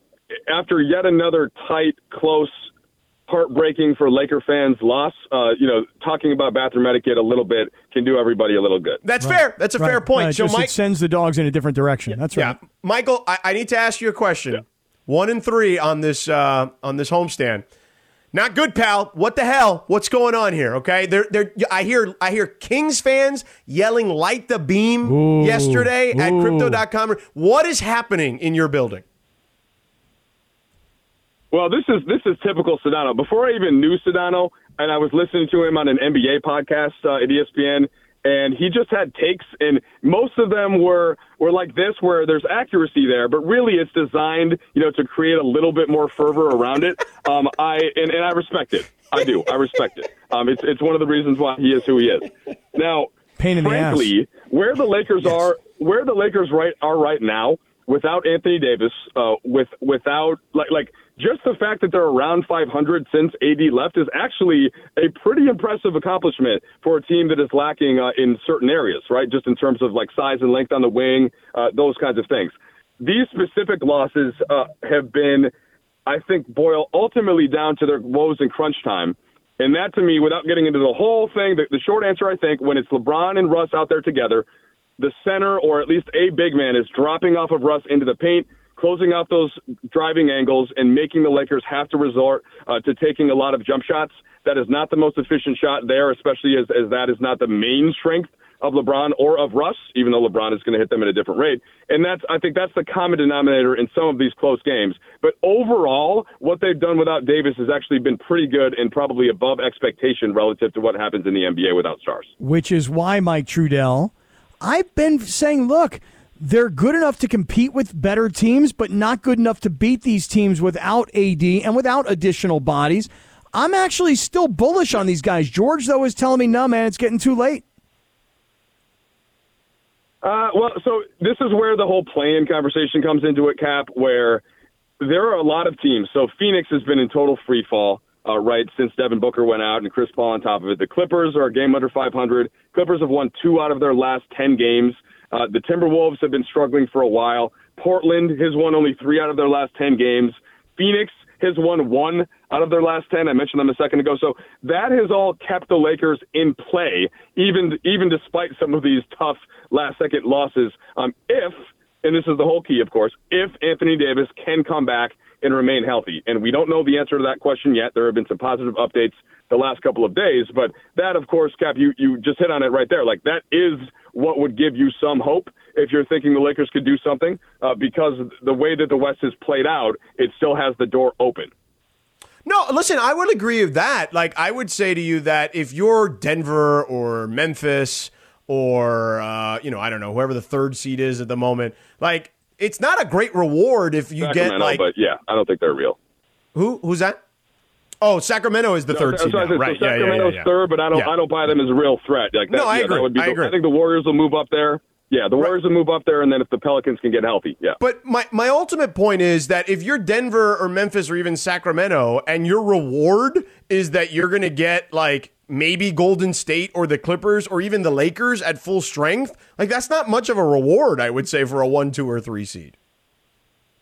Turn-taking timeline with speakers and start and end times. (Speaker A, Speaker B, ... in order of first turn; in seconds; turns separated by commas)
Speaker A: 0.5-2.6, Speaker A: 3.3-9.0, Speaker B: 9.0-10.7, Speaker C: 9.2-12.6, Speaker B: 12.3-17.6, Speaker B: 18.3-29.0, Speaker C: 25.1-26.8, Speaker A: 31.5-75.5, Speaker C: 53.4-54.1, Speaker A: 76.0-84.4, Speaker A: 85.0-112.3, Speaker C: 112.4-127.6, Speaker A: 130.2-134.4, Speaker A: 135.0-181.5, Speaker B: 182.4-194.8, Speaker A: 194.2-196.0, Speaker B: 196.5-197.2, Speaker B: 198.0-201.1, Speaker A: 198.9-207.8, Speaker B: 202.5-203.5, Speaker B: 207.8-222.7